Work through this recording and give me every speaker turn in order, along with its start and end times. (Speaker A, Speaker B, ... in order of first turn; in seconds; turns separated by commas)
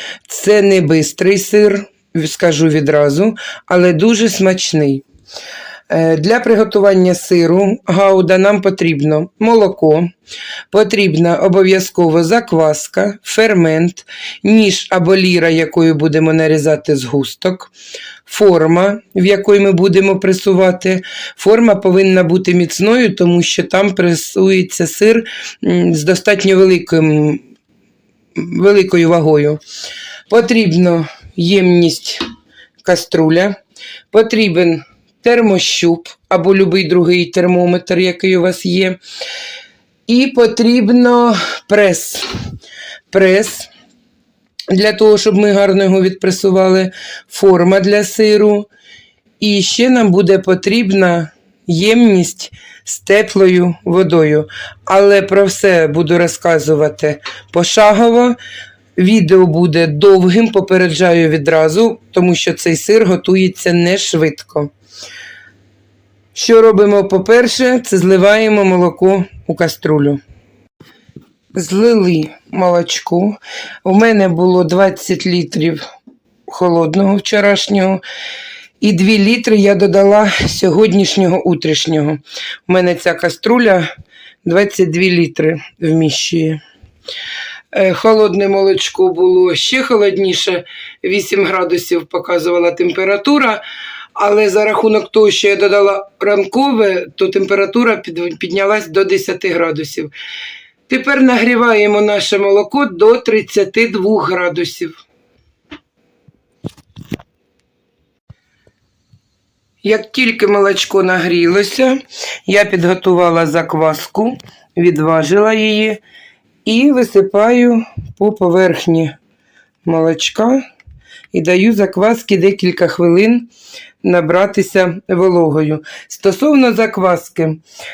Speaker A: 0.3-5.0, Speaker A: 5.9-10.1, Speaker A: 10.7-17.7, Speaker A: 18.2-27.4, Speaker A: 28.3-29.6, Speaker A: 30.3-32.2, Speaker A: 32.8-33.6, Speaker A: 34.1-39.0, Speaker A: 40.1-42.3, Speaker A: 43.1-43.7, Speaker A: 44.7-48.7, Speaker A: 49.4-58.4, Speaker A: 59.0-64.7, Speaker A: 66.3-70.2, Speaker A: 71.5-75.8, Speaker A: 76.5-78.0, Speaker A: 78.8-83.9, Speaker A: 84.4-86.6, Speaker A: 87.7-93.6, Speaker A: 94.1-100.1, Speaker A: 100.9-105.0, Speaker A: 109.8-116.0, Speaker A: 116.6-119.2, Speaker A: 119.8-120.6, Speaker A: 121.3-123.5, Speaker A: 124.0-127.6